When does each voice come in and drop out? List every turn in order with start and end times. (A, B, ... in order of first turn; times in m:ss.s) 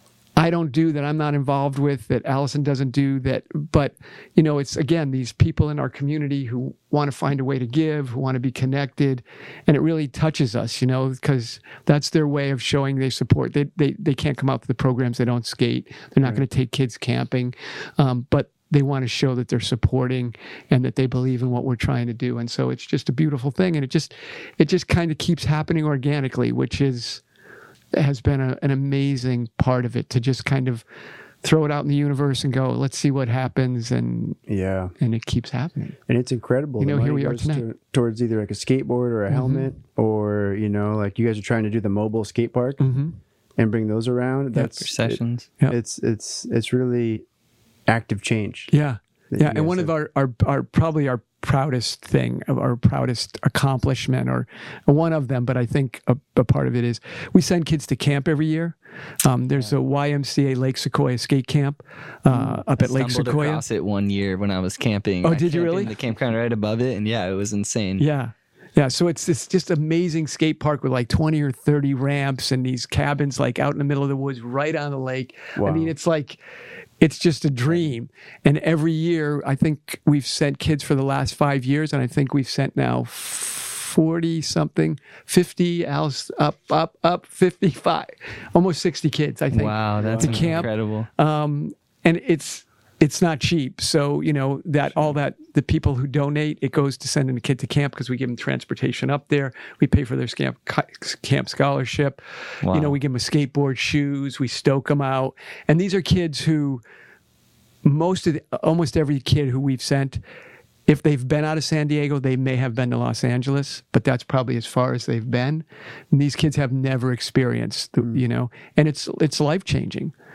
0:00.4-0:27.2 A
0:27.9-0:30.8 A
0:31.4-0:34.4 A
0:34.5-0:34.9 B
0:35.0-0:36.0 A
0:36.1-0:42.8 B
0:36.8-0:37.6 A
0:39.3-0:39.7 A
0:42.8-0:43.2 A
0:43.6-0:47.2 B
0:44.5-0:45.5 C
0:47.9-0:48.7 B
0:48.7-1:03.6 A
0:49.3-0:49.9 B
1:02.3-1:08.1 C
1:05.2-1:05.9 A
1:08.0-1:16.4 A
1:15.6-1:15.9 B
1:17.0-1:46.8 A
1:29.5-1:31.1 C
1:30.0-1:30.6 B
1:42.6-1:43.0 C
1:47.8-1:50.2 A
1:50.9-2:00.1 A